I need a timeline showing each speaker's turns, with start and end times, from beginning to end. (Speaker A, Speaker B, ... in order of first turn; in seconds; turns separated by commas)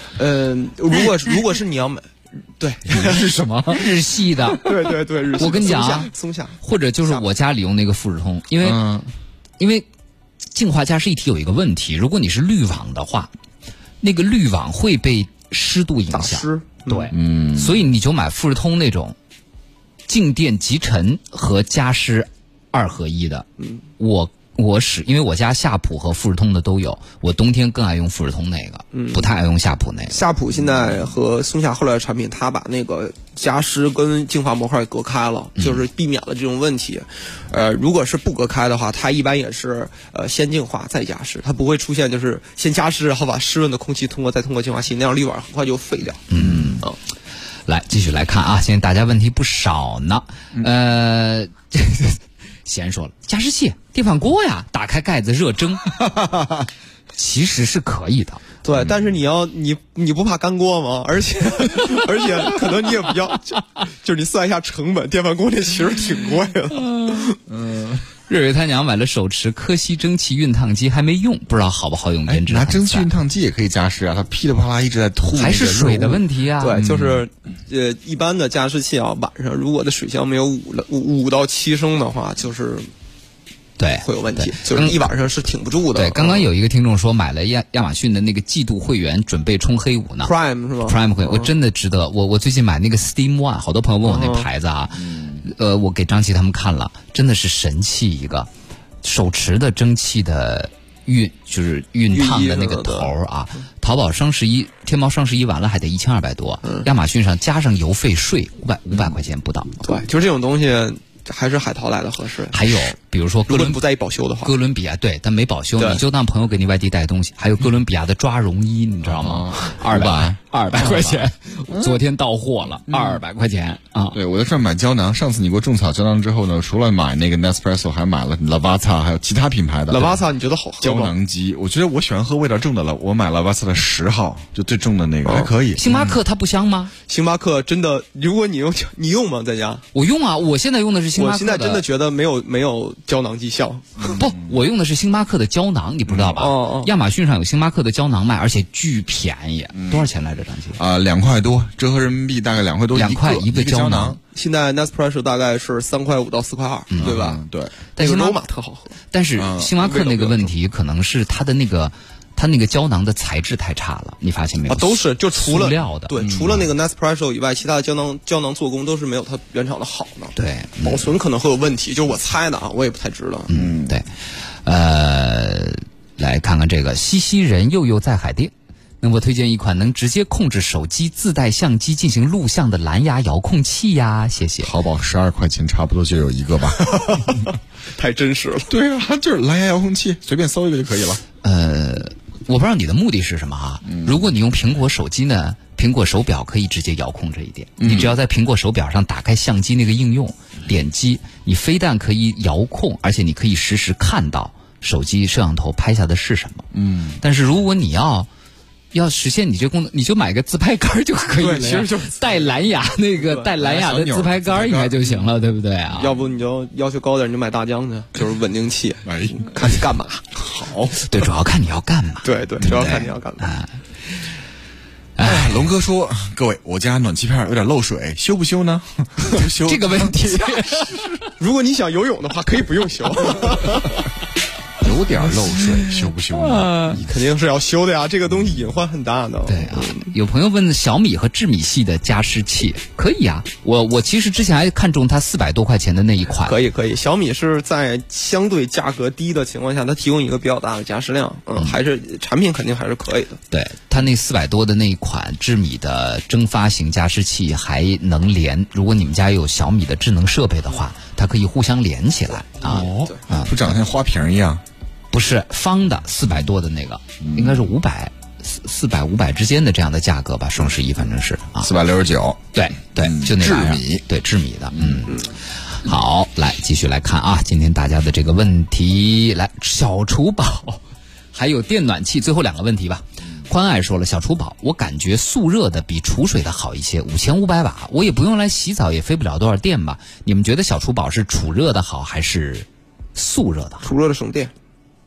Speaker A: 0.2-2.1, Speaker A: 2.6-3.9, Speaker B: 2.9-4.7, Speaker A: 4.5-7.3, Speaker B: 5.4-6.1, Speaker B: 6.6-8.8, Speaker C: 8.6-9.1, Speaker B: 9.6-9.9, Speaker B: 10.5-13.3, Speaker B: 14.0-19.1, Speaker A: 16.1-17.1, Speaker C: 17.1-17.8, Speaker B: 20.1-23.4, Speaker A: 23.6-23.8, Speaker B: 24.0-30.2, Speaker A: 28.9-29.3, Speaker A: 30.1-46.3, Speaker B: 46.3-46.9, Speaker C: 46.4-46.7, Speaker B: 47.6-56.0, Speaker C: 56.0-56.6, Speaker B: 57.1-58.4, Speaker A: 58.6-67.4, Speaker C: 58.8-59.0, Speaker B: 66.9-67.2, Speaker C: 67.5-68.0, Speaker B: 68.3-73.1, Speaker C: 72.3-76.2, Speaker B: 75.3-76.8, Speaker A: 76.6-82.9, Speaker C: 76.8-77.2, Speaker B: 83.8-85.0, Speaker A: 84.0-86.5, Speaker B: 85.9-90.3, Speaker A: 90.2-91.5, Speaker B: 90.8-98.5, Speaker A: 94.0-94.5, Speaker C: 94.9-95.4, Speaker B: 99.0-109.8, Speaker A: 102.1-103.1, Speaker A: 109.8-112.8, Speaker B: 112.5-113.8, Speaker A: 113.5-114.5, Speaker B: 114.4-124.2, Speaker C: 119.0-122.0, Speaker C: 122.9-123.2, Speaker C: 124.1-130.2, Speaker A: 129.9-131.1, Speaker C: 130.8-136.2, Speaker A: 135.2-135.5, Speaker B: 135.7-136.9, Speaker A: 137.1-139.8, Speaker B: 139.9-141.8, Speaker A: 141.2-144.2, Speaker B: 144.1-150.8, Speaker C: 146.1-146.3, Speaker A: 146.3-146.9, Speaker C: 149.7-150.0, Speaker C: 150.8-154.2, Speaker B: 152.9-154.2, Speaker A: 154.3-157.4, Speaker B: 156.9-157.2, Speaker C: 157.0-157.7, Speaker B: 157.9-158.4, Speaker A: 157.9-159.0, Speaker B: 159.1-166.1, Speaker C: 159.4-159.8, Speaker A: 159.8-160.5, Speaker A: 164.7-173.5, Speaker C: 166.2-166.7, Speaker B: 170.3-171.1, Speaker B: 173.5-174.1, Speaker C: 173.5-174.0, Speaker B: 174.6-184.7, Speaker C: 184.6-187.5, Speaker A: 186.9-188.7, Speaker C: 188.7-191.2, Speaker B: 191.4-206.7, Speaker C: 197.8-198.1, Speaker C: 206.7-207.2, Speaker B: 207.2-208.3, Speaker B: 208.9-216.1, Speaker A: 211.4-212.6, Speaker A: 213.2-213.5, Speaker C: 213.6-215.2, Speaker A: 216.0-220.3, Speaker C: 219.0-219.8, Speaker C: 220.3-221.0, Speaker B: 221.0-224.2, Speaker A: 222.2-223.5, Speaker B: 225.2-225.6, Speaker C: 225.2-230.6, Speaker B: 229.4-231.1, Speaker A: 231.2-234.1, Speaker C: 234.8-237.1, Speaker B: 235.3-237.0, Speaker A: 236.9-240.1, Speaker B: 239.4-246.6, Speaker A: 246.4-253.4, Speaker B: 253.5-263.6, Speaker C: 262.6-264.6, Speaker B: 265.1-271.7, Speaker C: 267.2-267.7, Speaker C: 271.6-274.0, Speaker B: 272.5-280.8, Speaker C: 274.8-275.1, Speaker A: 275.1-275.3, Speaker B: 281.3-293.9, Speaker A: 293.8-294.5